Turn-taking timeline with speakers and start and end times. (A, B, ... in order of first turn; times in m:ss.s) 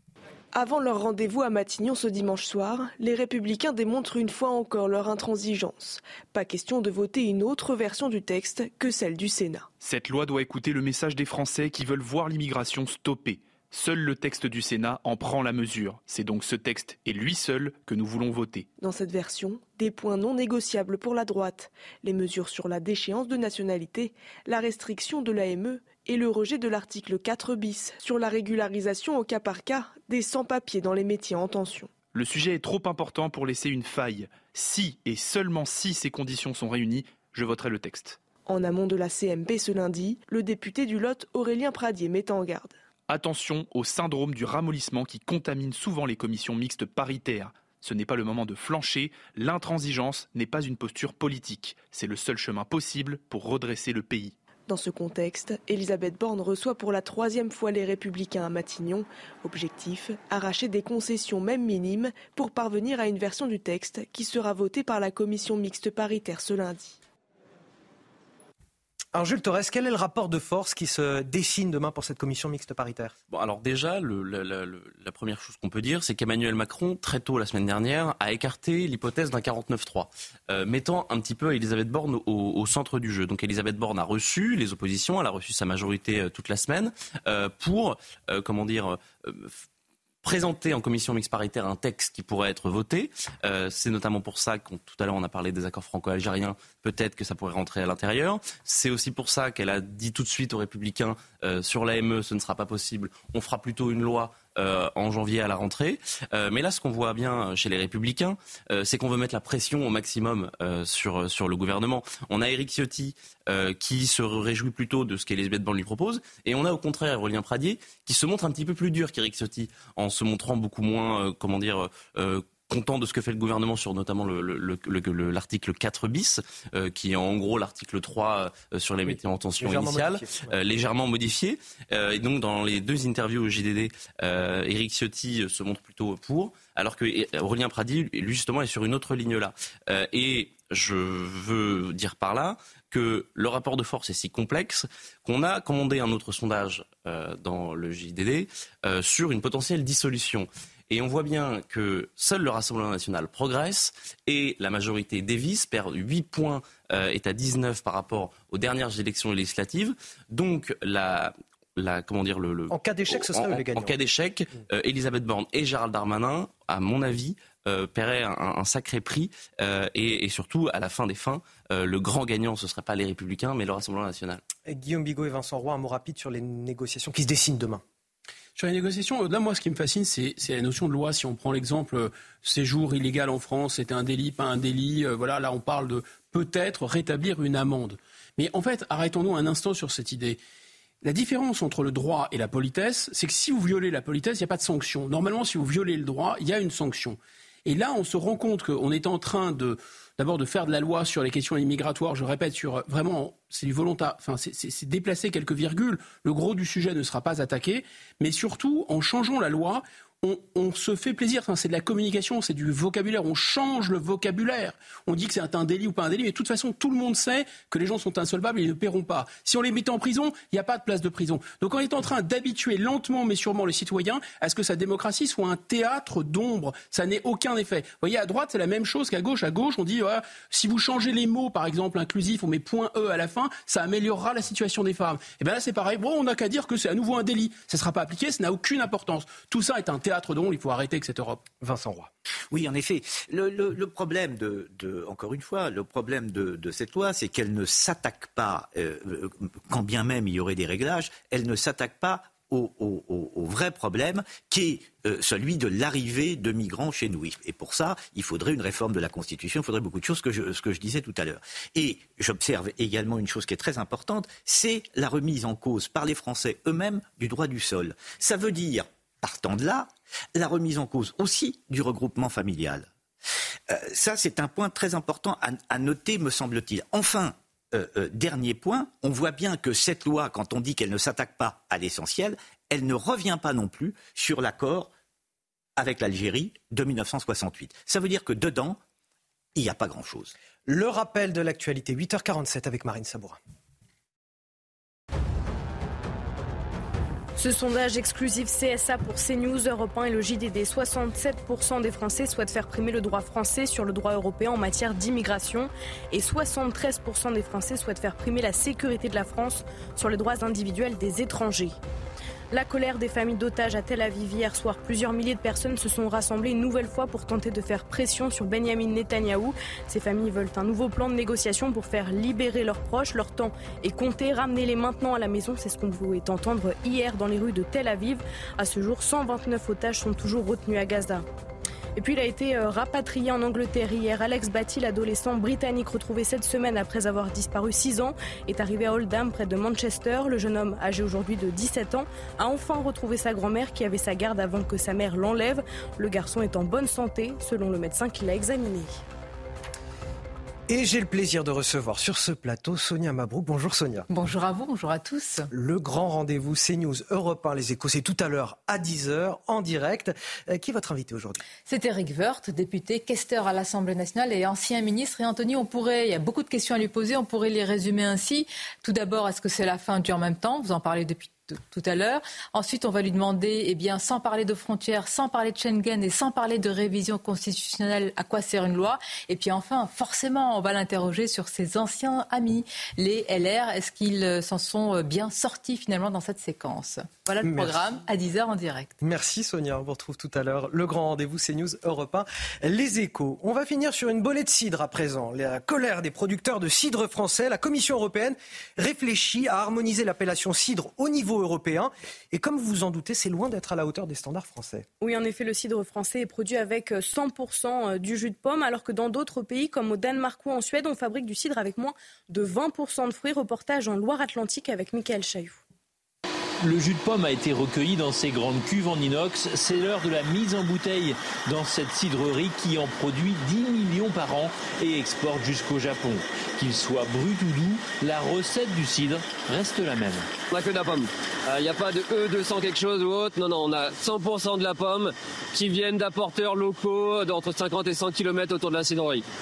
0:00.5-0:09.7 A
0:09.8-0:18.7 B
0:18.8-0:31.9 A
0:32.1-0:38.2 B
0:38.5-0:42.8 A
0:43.1-0:54.3 B
0:54.7-1:07.0 A
1:09.1-1:13.1 C
1:13.3-1:29.6 D
1:30.2-2:54.4 D
2:09.1-2:10.5 C
2:42.7-2:44.0 C
2:54.7-2:57.8 C
2:58.6-3:10.4 E
3:11.0-4:01.4 E
4:01.6-4:02.1 C
4:02.5-4:32.9 F
4:33.7-4:44.9 F
4:45.8-4:48.8 F
4:49.6-4:50.3 F
4:50.7-4:53.4 C
4:57.4-5:11.8 G
5:12.5-5:31.3 G
5:32.0-5:49.0 G
5:50.7-5:54.1 C
5:54.1-5:55.5 H
5:55.5-6:01.4 C
6:01.6-6:29.0 H
6:27.4-6:27.9 C
6:29.0-6:44.9 C
6:45.0-6:55.6 G
6:56.6-7:10.3 I
7:10.5-7:19.2 J